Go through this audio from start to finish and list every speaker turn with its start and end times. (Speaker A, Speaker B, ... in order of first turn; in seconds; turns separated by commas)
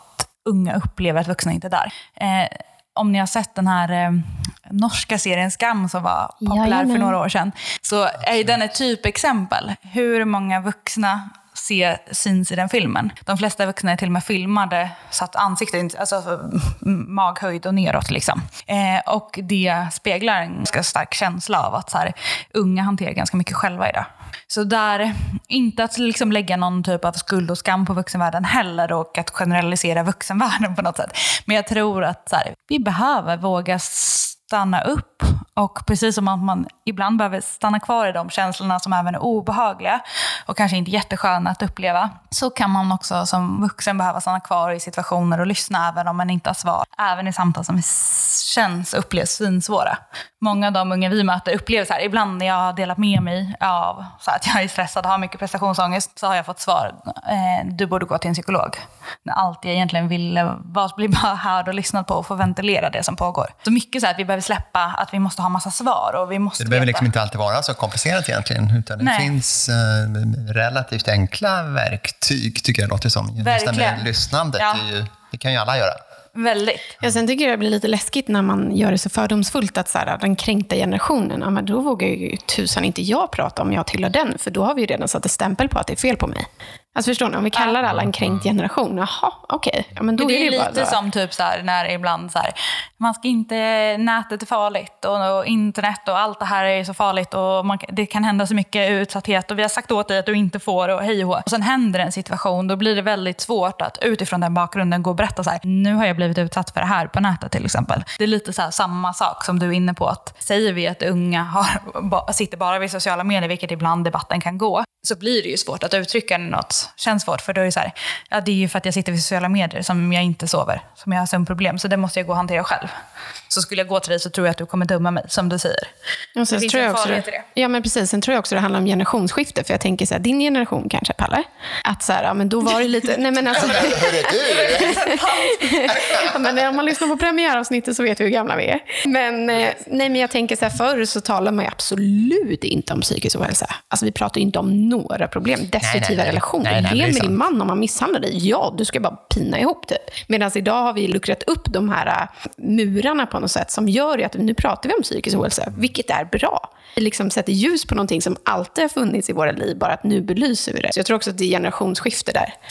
Speaker A: 0.4-67.1, Speaker B: 6.4-7.2, Speaker C: 66.6-76.0, Speaker A: 69.0-69.3, Speaker A: 73.4-74.8, Speaker A: 76.3-77.0, Speaker B: 77.0-91.0, Speaker A: 90.2-122.9, Speaker A: 123.5-125.9, Speaker B: 126.3-162.5, Speaker A: 126.5-127.4, Speaker C: 133.5-135.0, Speaker A: 133.6-136.3, Speaker C: 135.9-136.3, Speaker C: 145.8-147.4